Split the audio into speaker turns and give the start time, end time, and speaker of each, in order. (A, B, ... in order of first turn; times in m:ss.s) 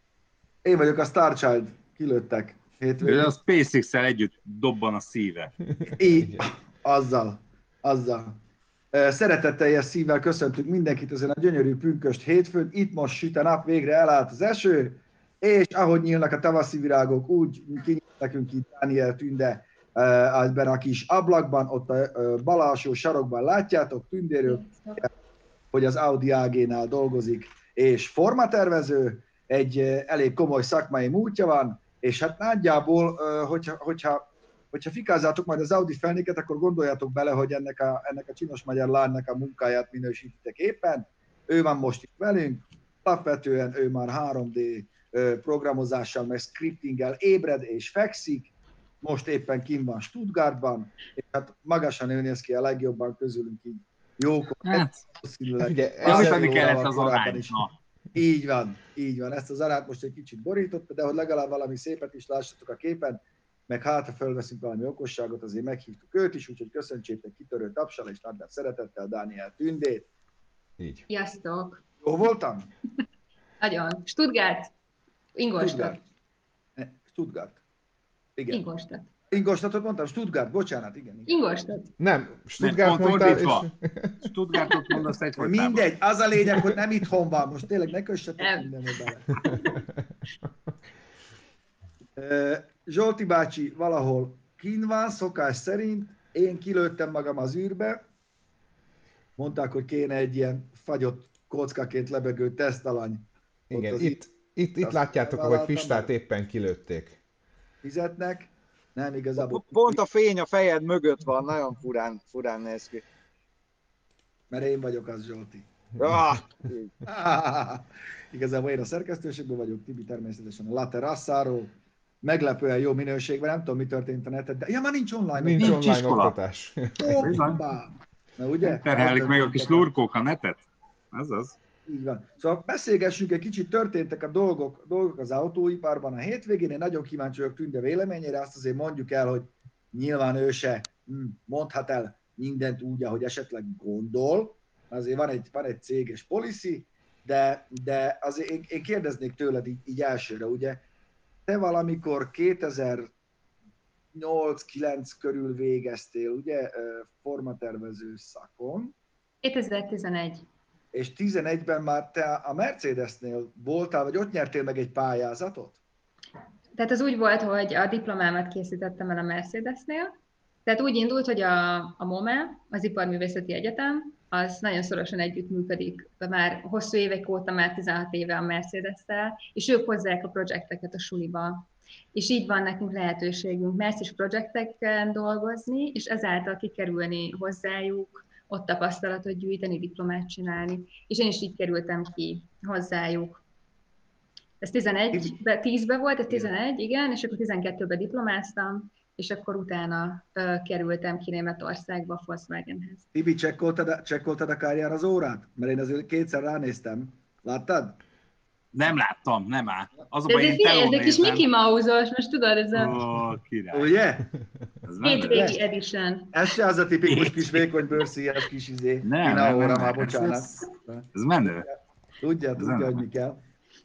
0:00.6-0:03.3 A
0:03.0-0:05.5 B
0:05.8-0:06.5 C
0:05.9-0:08.4 A
0:08.9-0:25.1 A
0:24.4-0:25.0 D
0:25.7-1:10.1 A
0:54.6-0:55.0 B
0:55.6-0:56.6 C
0:56.0-0:57.7 B
1:10.8-1:11.0 C
1:11.1-1:11.8 D
1:12.0-1:12.7 A
1:13.6-1:14.7 D
1:15.4-1:16.0 D
1:15.6-1:16.0 A
1:16.8-1:17.6 A
1:18.4-1:18.6 A
1:18.5-1:19.1 D
1:19.3-1:21.3 A
1:21.2-1:21.9 D
1:22.0-1:24.2 C
1:22.6-1:23.6 B
1:23.0-1:23.5 A
1:24.2-1:25.9 B
1:24.6-1:24.9 D
1:25.4-1:29.6 A
1:28.4-1:28.7 D
1:29.4-1:29.8 D
1:32.2-1:38.0 A
1:39.4-1:44.2 A
1:43.7-1:47.2 C
1:44.8-1:46.1 A
1:47.8-1:50.0 A
1:49.4-1:53.0 E
1:54.5-1:55.7 A
1:56.0-1:56.9 E
1:57.0-2:05.8 A
2:05.4-2:07.4 C
2:05.6-2:06.3 B
2:07.0-2:09.9 A
2:07.2-2:07.6 B
2:08.6-2:11.5 B
2:11.9-2:30.8 A
2:31.4-2:33.1 A
2:34.1-2:38.9 A
2:39.4-2:40.4 D
2:40.9-2:45.8 A
2:46.8-2:50.1 D
2:50.6-3:13.4 D
3:14.6-3:23.0 D
3:23.1-3:28.0 A
3:28.7-3:31.5 B
3:30.3-3:33.0 D
3:32.7-3:34.0 B
3:33.7-3:34.3 A
3:34.8-3:35.5 B
3:35.0-3:36.5 D
3:35.2-3:35.6 A
3:36.3-3:43.4 A
3:37.0-3:37.7 B
3:39.0-3:40.5 B
3:41.1-3:41.7 B
3:42.6-3:43.0 B